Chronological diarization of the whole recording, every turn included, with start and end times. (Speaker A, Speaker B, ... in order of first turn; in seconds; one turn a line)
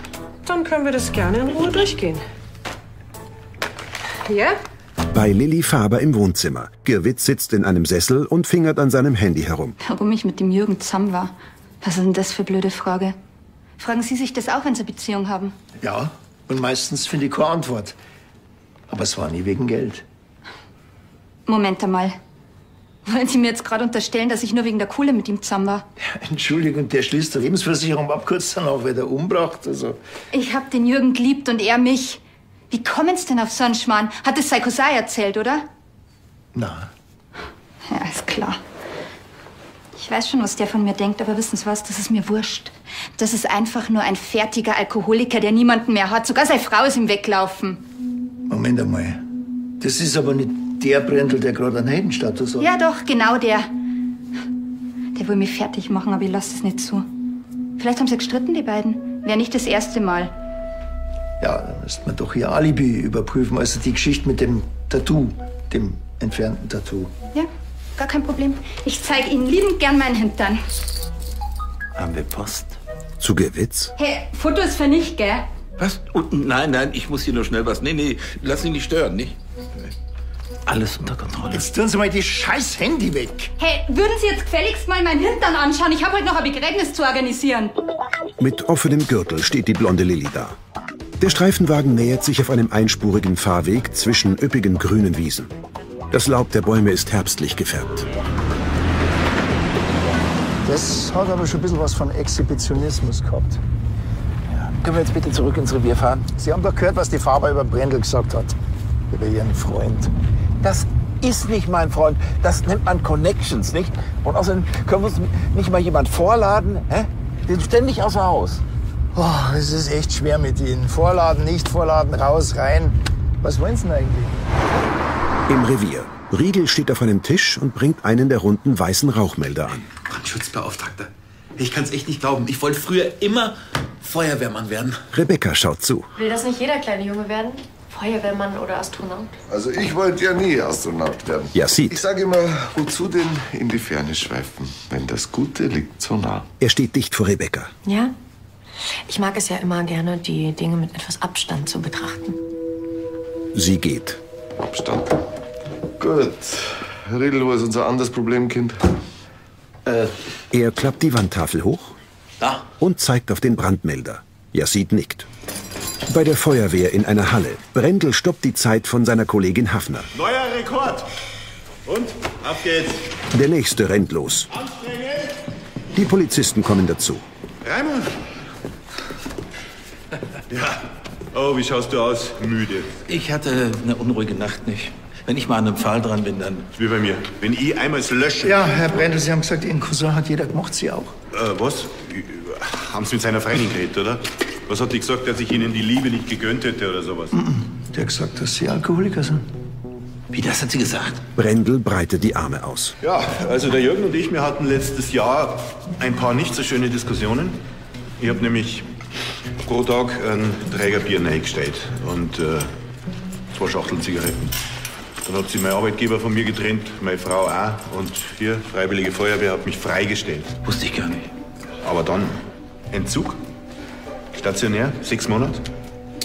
Speaker A: 0.4-2.2
Speaker A: 4.2-4.5
Speaker B: 5.1-9.8
Speaker C: 9.8-13.2
Speaker C: 13.8-15.6
Speaker D: 15.8-17.9
Speaker D: 18.9-20.0
Speaker C: 21.5-22.2
Speaker C: 23.0-25.9
Speaker D: 26.0-30.0
Speaker C: 30.3-35.7
Speaker D: 36.5-36.9
Speaker C: 37.9-38.6
Speaker C: 40.0-47.8
Speaker D: 48.5-49.2
Speaker D: 49.8-52.7
Speaker C: 52.6-53.7
Speaker C: 55.1-57.1
Speaker C: 57.8-60.3
Speaker D: 61.4-67.1
Speaker C: 67.3-70.6
Speaker E: 72.0-72.8
Speaker B: 73.2-73.9
Speaker C: 74.0-75.5
Speaker E: 75.8-79.4
Speaker E: 80.7-81.7
Speaker D: 81.5-83.5
Speaker C: 83.6-87.7
Speaker B: 88.4-90.6
Speaker B: 91.2-95.5
Speaker B: 96.1-98.1
Speaker D: 100.6-103.6
Speaker E: 104.5-106.3
Speaker D: 106.3-108.5
Speaker D: 109.1-110.1
Speaker E: 110.6-118.6
Speaker D: 119.1-124.4
Speaker B: 125.5-129.8
Speaker F: 130.0-135.0
Speaker B: 135.1-136.1
Speaker G: 136.1-139.3
Speaker H: 139.5-146.5
Speaker B: 141.5-142.0
Speaker B: 146.6-147.7
Speaker G: 147.8-148.1
Speaker G: 148.8-152.4
Speaker B: 153.5-154.2
Speaker H: 154.6-155.2
Speaker H: 156.0-158.9
Speaker F: 159.8-160.1
Speaker B: 160.5-161.9
Speaker B: 162.8-165.3
Speaker B: 166.1-170.1
Speaker I: 170.1-171.1
Speaker I: 171.8-173.0
Speaker B: 173.3-174.5
Speaker I: 174.5-175.3
Speaker B: 175.9-177.2
Speaker I: 177.6-178.1
Speaker I: 180.5-182.9
Speaker E: 183.1-186.7
Speaker I: 186.7-188.8
Speaker D: 188.4-191.2
Speaker I: 191.3-197.3
Speaker D: 197.3-199.5
Speaker E: 200.3-201.2
Speaker B: 201.3-203.0
Speaker I: 203.0-207.6
Speaker I: 208.2-208.9
Speaker I: 209.6-212.7
Speaker I: 213.5-214.5
Speaker I: 215.2-220.5
Speaker E: 220.6-221.3
Speaker I: 221.8-223.4
Speaker I: 224.3-225.6